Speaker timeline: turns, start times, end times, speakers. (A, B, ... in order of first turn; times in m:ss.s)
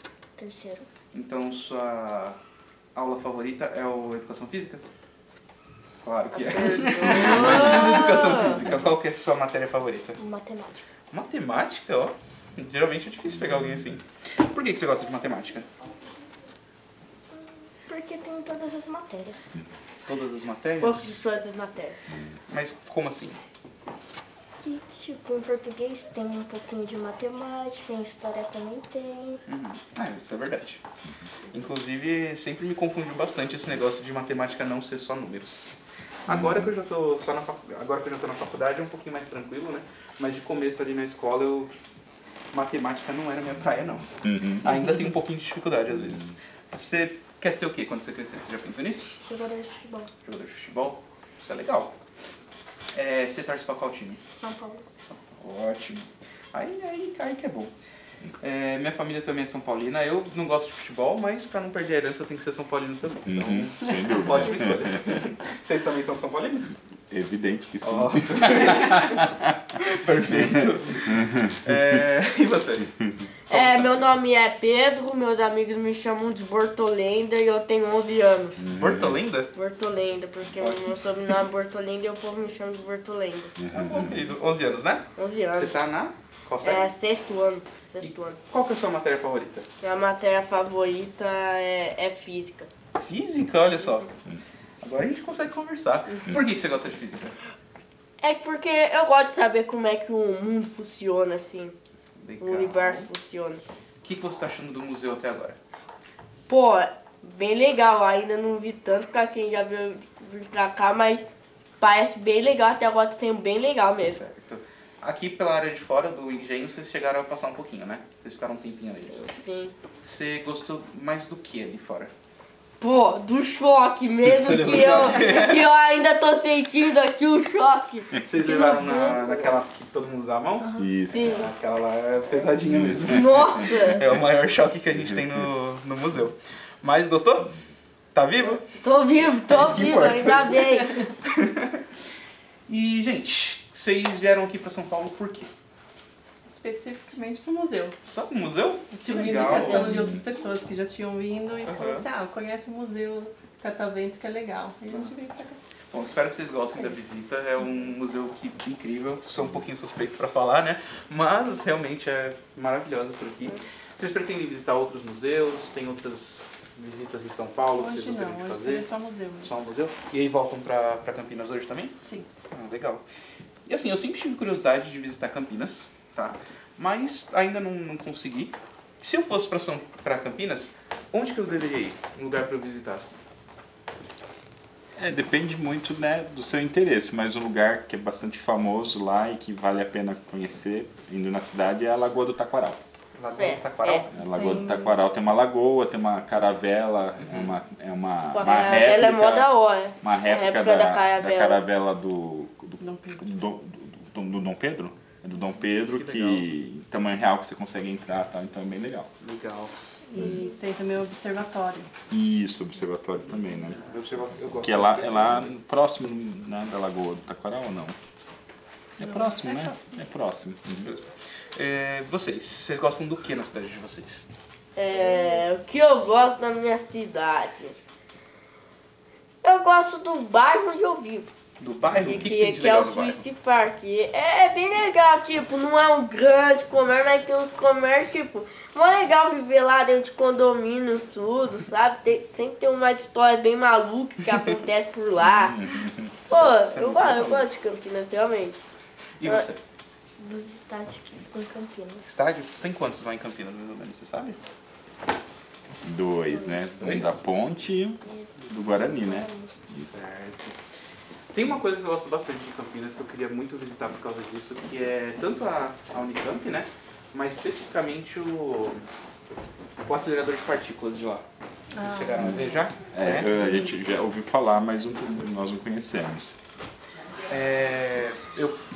0:00.4-0:00.9 A
0:01.1-0:02.4 B
0:03.0-0:04.8 B
0:06.0-0:10.2 B
0:06.3-0:08.6 C
0:07.2-0:07.9 A
0:10.2-0:10.8 A
0:11.1-0:15.7 B
0:17.3-0:19.5 A
0:20.1-0:21.2 B
0:20.8-0:22.0 C
0:22.5-0:23.4 B
0:24.6-0:29.4 A
0:29.5-0:30.8 B
0:31.5-0:41.7 B
0:36.3-0:36.7 D
0:42.5-0:49.2 B
0:44.2-0:44.7 D
0:49.2-0:50.1 A
0:50.2-0:51.9 B
0:52.9-0:54.2 B
0:54.3-0:54.9 A
0:55.0-0:57.7 B
0:58.4-1:06.7 B
1:03.3-1:04.9 D
1:07.1-1:09.0 D
1:07.8-1:12.9 B
1:13.5-1:14.1 B
1:13.5-1:18.6 C
1:18.6-1:19.2 D
1:18.7-1:19.5 B
1:19.5-1:23.6 C
1:23.6-1:24.2 D
1:23.7-1:26.9 B
1:25.2-1:25.8 C
1:26.6-1:28.4 C
1:28.0-1:29.7 B
1:29.8-1:32.7 C
1:33.0-1:34.1 B
1:34.8-1:37.3 B
1:38.2-1:41.7 C
1:42.2-1:43.1 B
1:42.4-1:43.6 C
1:44.0-1:45.6 B
1:46.5-1:51.2 C
1:51.8-1:54.2 C
1:54.2-1:59.2 B
1:59.0-1:59.7 C
2:00.0-2:02.1 B
2:02.8-2:09.6 C
2:04.2-2:05.6 B
2:08.2-2:10.7 B
2:10.6-2:10.9 A
2:10.8-2:11.4 D
2:11.1-2:11.5 C
2:11.2-2:17.5 B
2:12.7-2:13.2 D
2:13.0-2:14.1 C
2:18.1-2:18.6 B
2:18.7-2:21.0 C
2:19.5-2:20.7 B
2:21.2-2:21.8 B
2:22.7-2:25.5 B
2:26.4-2:28.0 E
2:28.0-2:29.9 B
2:28.9-2:35.6 E
2:29.6-2:30.2 D
2:31.6-2:32.0 B
2:35.9-2:48.9 B
2:36.7-2:37.0 E
2:47.7-2:49.5 E
2:49.4-2:51.9 B
2:52.0-2:52.3 E
2:52.5-2:53.0 B
2:53.6-3:03.1 B
3:05.0-3:12.8 D
3:13.2-3:14.2 B
3:13.4-3:14.0 C
3:14.1-3:29.1 D
3:14.3-3:15.0 E
3:17.2-3:17.5 B
3:18.3-3:21.6 C
3:22.8-3:23.2 E
3:25.7-3:26.5 B
3:29.2-3:29.7 B
3:30.1-3:31.9 E
3:32.1-3:33.8 D
3:33.8-3:35.5 B
3:34.6-3:38.0 D
3:39.0-3:40.9 D
3:40.8-3:44.3 B
3:44.7-3:47.8 C
3:49.4-3:51.3 C
3:51.6-3:53.2 B
3:51.9-4:05.6 C
4:05.4-4:06.1 D
4:06.3-4:08.6 C
4:06.3-4:07.5 B
4:09.2-4:09.6 B
4:10.2-4:12.1 A
4:12.0-4:14.4 B
4:15.8-4:20.0 D
4:16.3-4:16.6 A
4:16.8-4:17.2 B
4:18.0-4:19.5 A
4:19.7-4:20.6 B
4:21.3-4:28.8 B
4:29.8-4:31.2 B
4:31.7-4:32.7 E
4:31.8-4:33.5 B
4:32.9-4:36.4 D
4:37.3-4:38.6 B